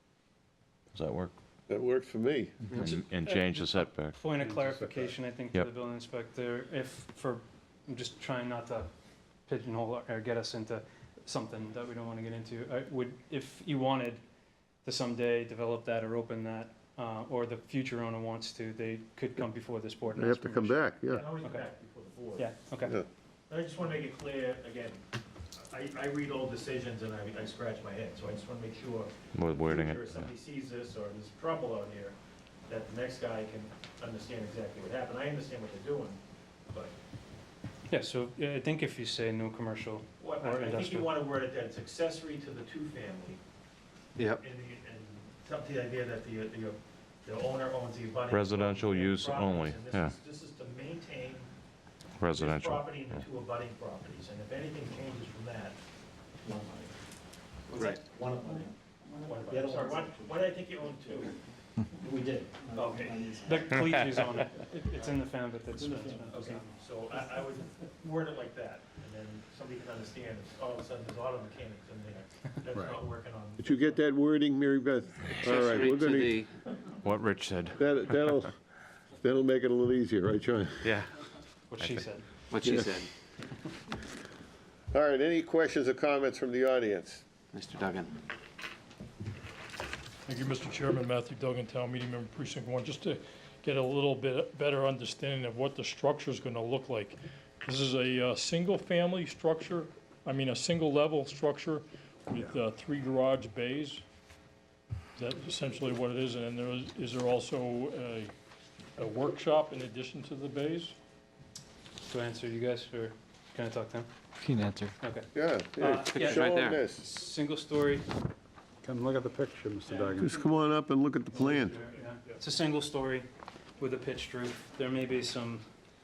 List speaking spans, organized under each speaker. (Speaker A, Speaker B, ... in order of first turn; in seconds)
Speaker A: 0.9-1.3, 2.7-4.2, 29.3-30.2, 48.3-50.1, 52.2-53.2, 77.0-78.4, 80.8-81.1, 81.8-82.1
Speaker B: 1.7-2.8, 20.1-21.2, 73.6-76.5, 77.8-78.5, 79.2-80.9, 84.9-87.2, 115.3-117.0, 120.1-121.8
Speaker C: 2.9-8.9, 9.4-14.2, 14.8-21.6, 22.4-23.0, 37.9-41.1, 62.8-66.6, 81.7-82.3, 112.0-114.1, 115.0-118.1, 119.8-120.7, 121.3-123.3, 123.8-125.6
Speaker D: 4.4-5.0, 118.8-120.3
Speaker E: 21.1-22.5, 23.5-25.0, 25.5-32.1, 32.7-36.2, 40.2-43.4, 44.3-51.5, 52.3-55.8, 57.7-58.7, 59.2-61.3, 62.7-63.2, 66.3-74.0
Speaker F: 58.0-58.6, 59.5-60.4, 62.0-63.4
Speaker G: 75.4-76.5, 82.5-83.1, 87.5-88.2, 116.2-116.8
Speaker H: 90.2-104.0, 105.2-108.3, 109.0-111.0